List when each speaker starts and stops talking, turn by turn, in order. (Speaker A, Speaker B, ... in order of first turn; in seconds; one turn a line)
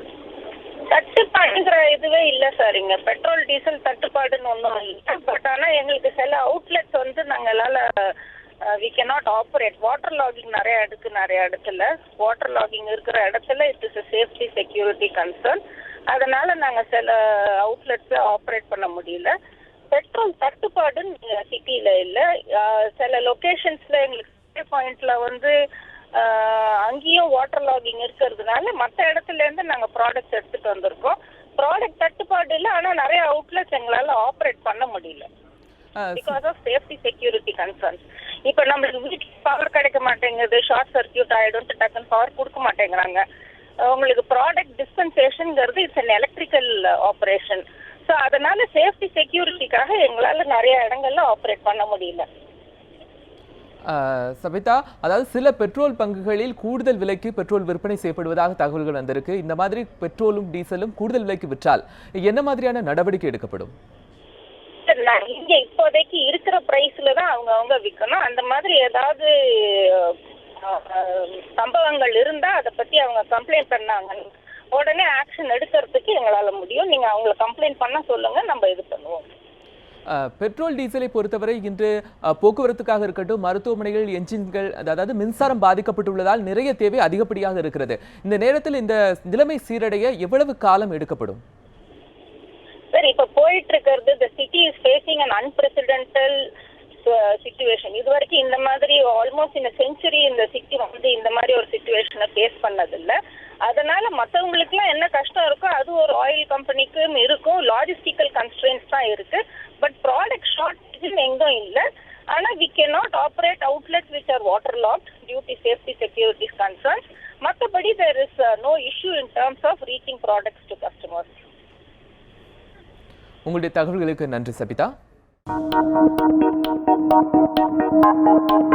Speaker A: 0.9-19.3
Speaker A: 19.9-25.5
Speaker A: 26.1-35.3
Speaker B: 36.0-36.3
Speaker A: 36.1-43.2
Speaker A: 43.8-52.3
Speaker B: 53.9-63.7
Speaker A: 64.9-79.2
Speaker B: 80.1-91.4
Speaker A: 92.9-96.5
Speaker A: 97.0-121.4
Speaker B: 123.5-124.9